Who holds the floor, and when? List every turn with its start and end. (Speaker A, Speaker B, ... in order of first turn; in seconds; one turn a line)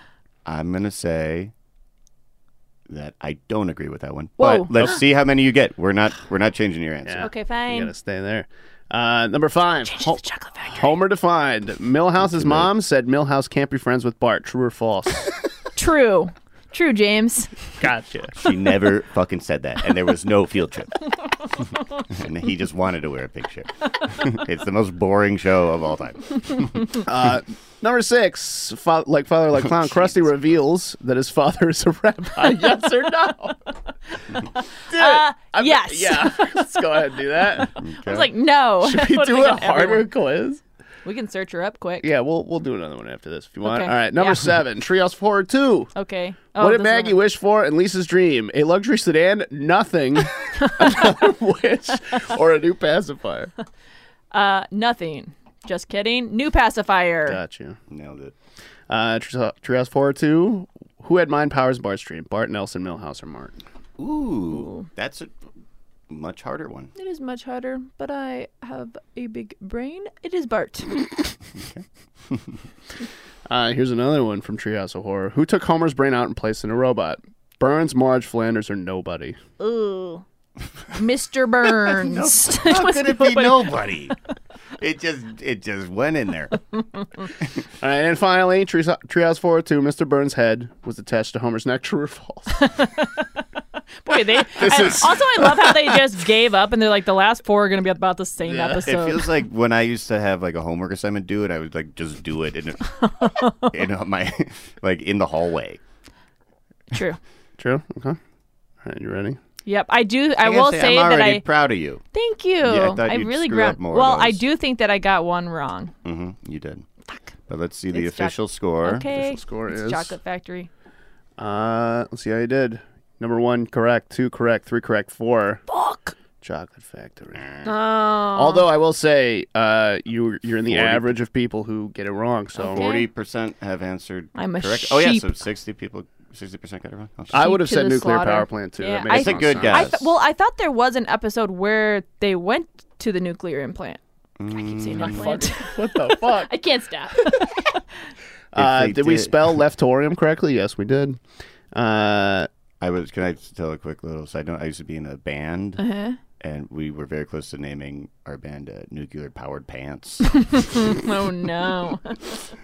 Speaker A: 0.4-1.5
Speaker A: 2.9-7.3
Speaker B: 4.4-4.9
Speaker C: 7.0-15.3
Speaker B: 7.2-7.9
Speaker B: 9.8-11.0
Speaker A: 12.2-12.7
Speaker B: 15.8-17.7
Speaker C: 17.8-18.4
Speaker A: 18.4-21.0
Speaker A: 22.0-26.9
Speaker C: 27.0-33.7
Speaker B: 34.7-40.1
Speaker C: 34.9-37.7
Speaker A: 37.8-38.3
Speaker C: 38.8-40.6
Speaker B: 41.0-42.1
Speaker C: 42.0-45.9
Speaker B: 43.6-44.5
Speaker B: 45.9-47.2
Speaker C: 46.6-53.5
Speaker B: 50.6-51.1
Speaker B: 54.3-57.4
Speaker C: 57.2-57.8
Speaker A: 57.9-58.3
Speaker C: 58.9-63.6
Speaker A: 64.0-65.3
Speaker B: 64.5-64.9
Speaker A: 66.1-66.9
Speaker B: 66.9-71.1
Speaker A: 71.5-72.6
Speaker C: 73.5-79.4
Speaker B: 79.6-80.2
Speaker B: 80.9-83.9
Speaker A: 81.8-84.2
Speaker A: 84.8-86.6
Speaker C: 87.8-92.9
Speaker B: 92.6-93.4
Speaker B: 94.0-99.3
Speaker C: 94.5-96.0
Speaker C: 98.5-98.9
Speaker A: 98.8-105.8
Speaker B: 102.9-103.8
Speaker B: 106.9-107.2
Speaker C: 107.6-108.2
Speaker C: 108.8-109.4
Speaker B: 109.7-111.4
Speaker A: 110.4-112.0
Speaker B: 112.1-115.9
Speaker A: 112.6-114.4
Speaker A: 116.0-116.8
Speaker A: 117.5-119.1
Speaker B: 117.9-120.7
Speaker C: 119.1-120.1
Speaker C: 121.4-125.6
Speaker B: 125.7-126.2
Speaker C: 126.4-127.7
Speaker B: 127.6-128.7
Speaker C: 128.2-132.9
Speaker A: 130.7-131.1
Speaker B: 132.6-133.1
Speaker A: 132.7-137.4
Speaker B: 134.3-135.3
Speaker C: 137.3-139.9
Speaker B: 137.3-144.0
Speaker A: 139.1-140.1
Speaker A: 144.4-145.4
Speaker B: 144.5-147.8
Speaker C: 144.9-146.5
Speaker C: 148.5-151.2
Speaker A: 148.5-149.6
Speaker C: 151.7-152.5
Speaker A: 152.8-155.8
Speaker B: 155.8-156.2
Speaker A: 156.4-160.4
Speaker B: 160.3-162.4